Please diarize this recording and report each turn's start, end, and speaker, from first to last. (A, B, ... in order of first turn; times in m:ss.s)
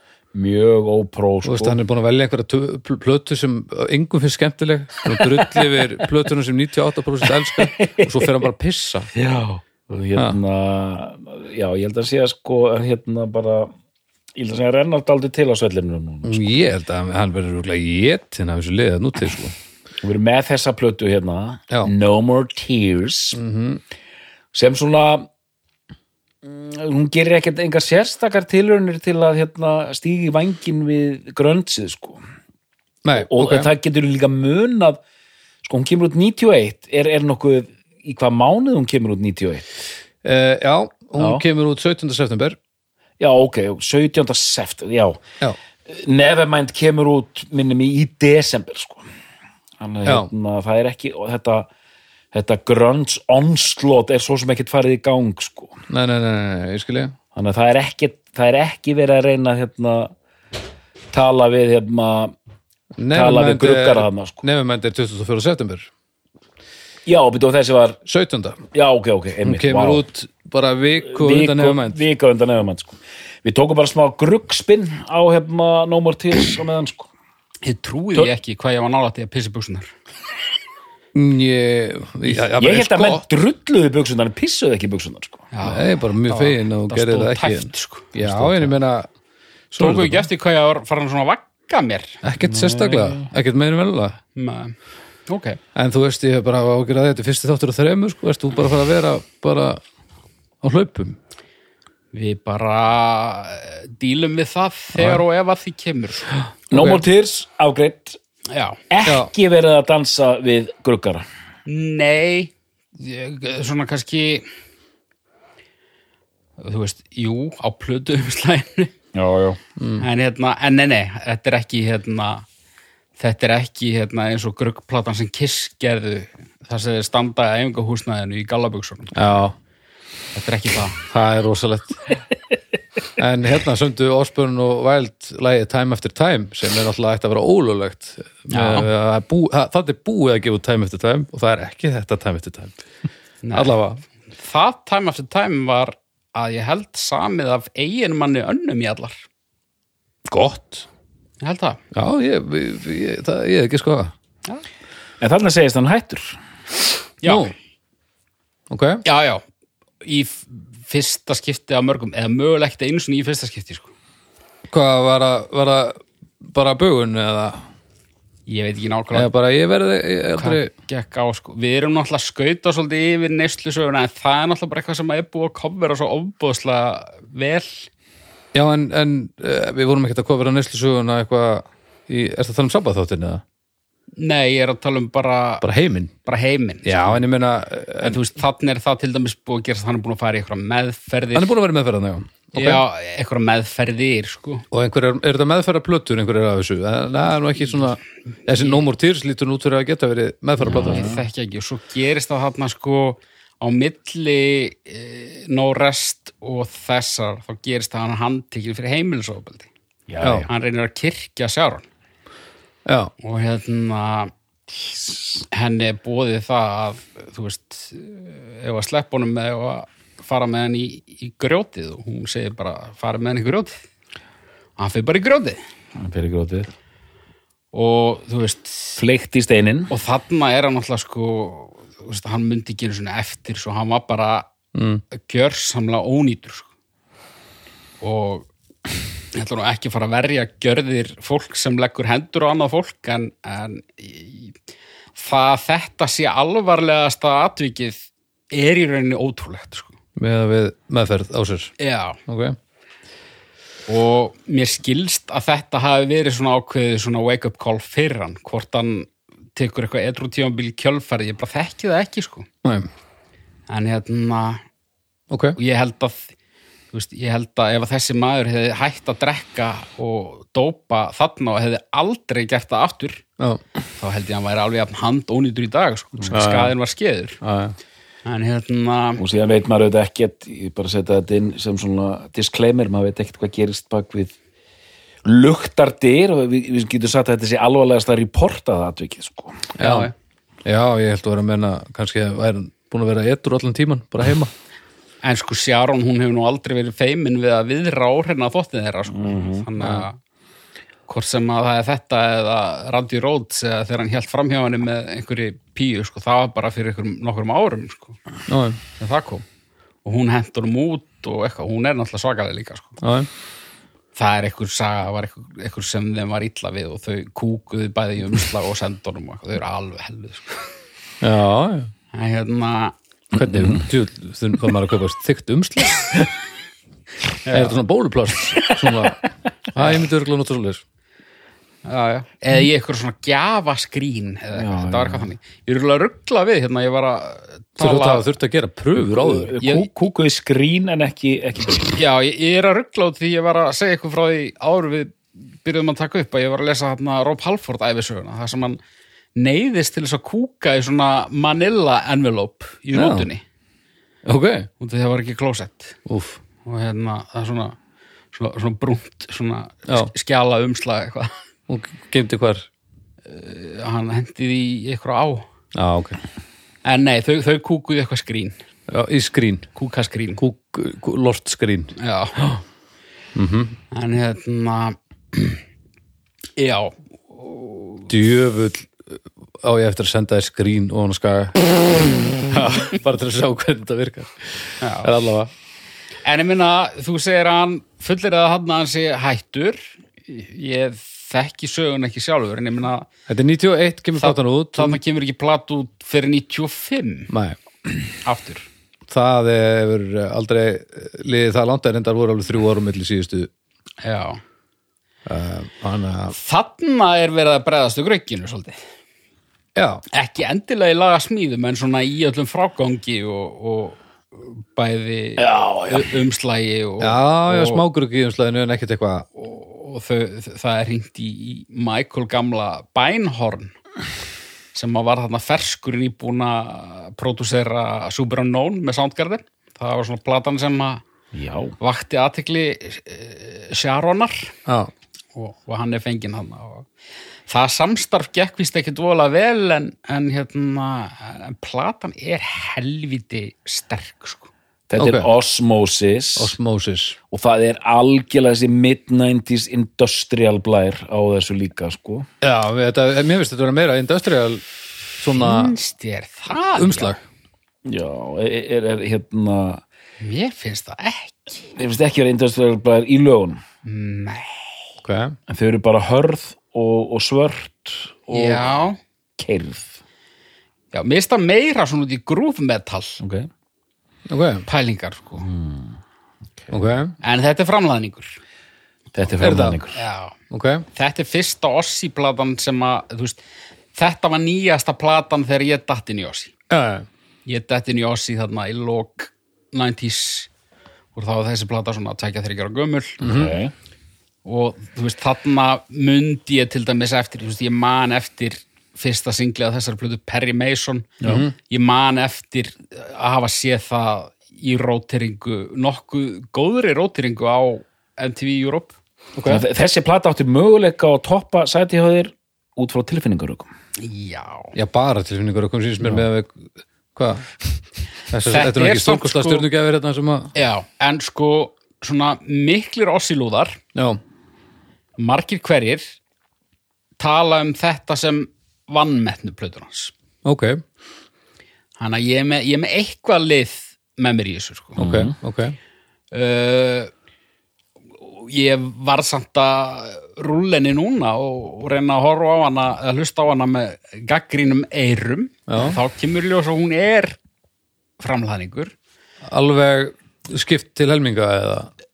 0:00.3-0:01.8 A
0:01.4-0:09.1 B
0:05.1-0:05.8 A
0:07.3-0:08.4 A
0:09.2-0:13.7 A
0:14.4-0:16.5 A
0:16.2-0:19.6 B
0:20.0-0:23.4 A
0:23.3-0:23.8 B
0:24.5-0:25.3 A
0:26.4-0:32.2 A
0:33.0-0:33.7 B
0:33.1-0:35.0 A
0:35.6-0:39.8 A
0:40.2-0:42.6 B
0:41.2-0:41.4 A
0:43.2-0:45.2 A
0:45.9-0:49.0 A
0:49.8-0:51.7 A
0:50.0-0:50.3 B
0:52.3-0:55.8 A
0:55.9-0:57.2 B
0:57.3-1:00.1 A
1:01.1-1:02.4 A
1:03.0-1:05.9 B
1:03.1-1:04.4 A
1:07.1-1:08.0 A
1:08.1-1:08.6 B
1:08.7-1:10.0 A
1:09.4-1:12.0 B
1:11.1-1:17.1 A
1:17.6-1:19.9 C
1:21.1-1:23.2 B
1:22.6-1:25.5 A
1:25.5-1:28.7 C
1:25.6-1:29.1 B
1:29.7-1:30.3 B
1:29.8-1:32.2 C
1:32.2-1:34.2 B
1:32.4-1:33.3 A
1:34.4-1:34.8 C
1:35.3-1:35.6 C
1:35.8-1:39.8 B
1:40.6-1:41.2 B
1:42.1-1:46.3 C
1:45.0-1:45.2 B
1:46.7-1:47.0 B
1:46.7-1:48.2 A
1:48.5-1:48.8 C
1:48.9-1:51.2 A
1:49.0-1:49.3 B
1:51.7-1:54.4 C
1:56.6-1:58.9 C
1:59.2-1:59.6 A
1:59.8-2:00.1 B
2:00.0-2:02.5 C
2:03.2-2:09.3 C
2:09.1-2:09.6 B
2:10.4-2:11.0 C
2:11.0-2:12.0 B
2:13.2-2:22.8 B
2:18.5-2:18.9 C
2:23.4-2:23.8 C
2:23.5-2:24.0 B
2:24.3-2:29.2 C
2:30.3-2:30.9 B
2:31.4-2:31.8 C
2:31.9-2:34.1 B
2:35.2-2:36.4 A
2:37.2-2:37.5 C
2:37.2-2:37.5 B
2:38.7-2:39.0 B
2:39.0-2:39.4 C
2:40.0-2:43.9 C
2:44.7-2:47.6 B
2:48.5-2:49.3 C
2:49.1-2:50.7 B
2:50.4-2:57.9 C
2:58.5-3:03.4 B
3:04.2-3:05.6 C
3:05.6-3:06.1 B
3:06.2-3:07.2 C
3:06.8-3:08.2 B
3:08.0-3:11.5 C
3:11.3-3:12.8 B
3:12.5-3:14.7 C
3:14.7-3:21.1 B
3:18.5-3:18.8 C
3:20.6-3:21.2 A
3:20.7-3:29.7 C
3:30.1-3:30.5 A
3:30.2-3:30.5 B
3:30.4-3:31.9 C
3:32.9-3:33.1 B
3:33.2-3:34.3 C
3:34.9-3:35.4 A
3:35.5-3:43.8 C
3:44.8-3:45.6 C
3:46.0-3:46.7 A
3:47.7-3:49.0 C
3:49.0-3:49.9 A
3:49.9-3:54.5 C
3:54.7-3:55.0 B
3:55.1-3:56.7 C
3:58.0-3:58.5 C
3:59.3-4:04.6 C
4:05.2-4:10.0 C
4:10.2-4:11.7 B
4:11.8-4:12.2 C
4:12.3-4:12.6 B
4:13.9-4:22.5 C
4:23.7-4:24.6 C
4:25.3-4:25.6 B
4:25.6-4:26.3 C
4:26.9-4:33.2 C
4:34.0-4:37.4 C
4:36.3-4:36.7 B
4:37.4-4:37.8 B
4:38.2-4:39.2 C
4:39.2-4:44.4 A
4:45.2-4:49.8 A
4:49.8-4:50.1 B
4:49.8-4:50.1 C
4:50.6-4:54.5 B
4:55.2-5:00.2 C
4:59.1-4:59.7 A
4:59.8-5:00.1 B
5:01.1-5:08.2 C
5:08.5-5:08.8 B
5:09.0-5:09.4 C
5:10.0-5:13.0 C
5:13.0-5:13.3 B
5:14.2-5:20.7 C
5:21.2-5:21.9 B
5:22.1-5:23.0 C
5:23.3-5:26.3 B
5:27.4-5:27.8 C
5:27.5-5:30.8 B
5:29.8-5:30.0 C
5:31.8-5:38.3 C
5:34.6-5:35.3 A
5:37.8-5:39.6 B
5:39.0-5:42.0 A
5:39.6-5:39.9 C
5:42.0-5:48.8 C
5:49.4-5:53.4 C
5:52.9-5:53.3 B
5:54.2-5:54.7 B
5:54.8-5:56.0 C
5:56.1-5:56.4 B
5:56.6-5:57.8 C
5:58.3-6:01.3 C
6:01.7-6:02.7 B
6:03.3-6:05.5 C
6:05.7-6:06.2 B
6:06.8-6:08.6 C
6:08.9-6:09.7 B
6:09.8-6:10.4 C
6:10.4-6:11.9 B
6:12.0-6:12.6 C
6:13.4-6:13.8 B
6:13.9-6:15.6 C
6:16.6-6:18.1 C
6:18.1-6:25.5 B
6:24.8-6:25.1 C
6:26.2-6:33.1 C
6:33.3-6:35.0 B
6:34.2-6:37.3 C
6:37.3-6:37.6 B
6:38.2-6:38.7 C
6:39.1-6:43.5 B
6:44.0-6:44.4 C
6:45.3-6:46.4 B
6:46.3-6:48.8 C
6:49.8-6:50.0 B
6:50.1-6:57.8 C
6:55.4-6:56.2 A
6:57.0-6:59.3 B
6:59.4-7:03.8 C
7:04.7-7:11.0 C
7:11.3-7:11.8 A
7:11.8-7:14.6 C
7:15.4-7:16.9 C
7:17.5-7:24.5 C
7:24.9-7:26.6 A
7:25.0-7:25.3 B
7:26.4-7:27.2 B
7:27.3-7:32.3 A
7:32.4-7:34.7 B
7:35.2-7:35.7 B
7:35.3-7:37.2 C
7:36.8-7:37.2 B
7:37.8-7:39.8 A
7:40.2-7:41.6 C
7:41.8-7:43.6 A
7:43.8-7:44.6 C
7:45.0-7:45.4 B
7:45.5-7:48.8 A
7:48.3-7:49.0 C
7:49.4-7:50.0 A
7:50.9-7:53.2 C
7:53.2-7:53.5 A
7:54.3-7:54.6 B
7:54.7-7:55.5 C
7:55.4-7:56.0 A
7:56.7-7:57.1 B
7:57.2-7:58.4 C
7:59.2-8:00.0 A
7:59.4-7:59.8 B
7:59.9-8:00.4 C
8:00.5-8:00.8 B
8:00.9-8:03.4 C
8:04.0-8:06.5 C
8:06.7-8:07.1 B
8:07.5-8:10.5 C
8:11.2-8:13.2 C
8:13.2-8:13.6 B
8:13.2-8:13.7 A
8:14.4-8:29.0 C
8:21.2-8:21.5 B
8:29.4-8:29.6 B
8:29.5-8:33.7 A
8:34.0-8:34.7 C
8:34.7-8:40.5 B
8:38.5-8:39.7 C
8:40.6-8:43.8 C
8:44.0-8:44.2 B
8:45.2-8:46.2 C
8:47.2-8:50.1 C
8:50.4-8:50.8 B
8:52.0-8:55.0 C
8:55.0-8:55.8 B
8:55.0-8:55.4 A
8:56.3-8:57.1 C
8:58.2-9:07.4 C
9:05.7-9:06.0 B
9:08.2-9:08.9 C
9:09.5-9:11.9 B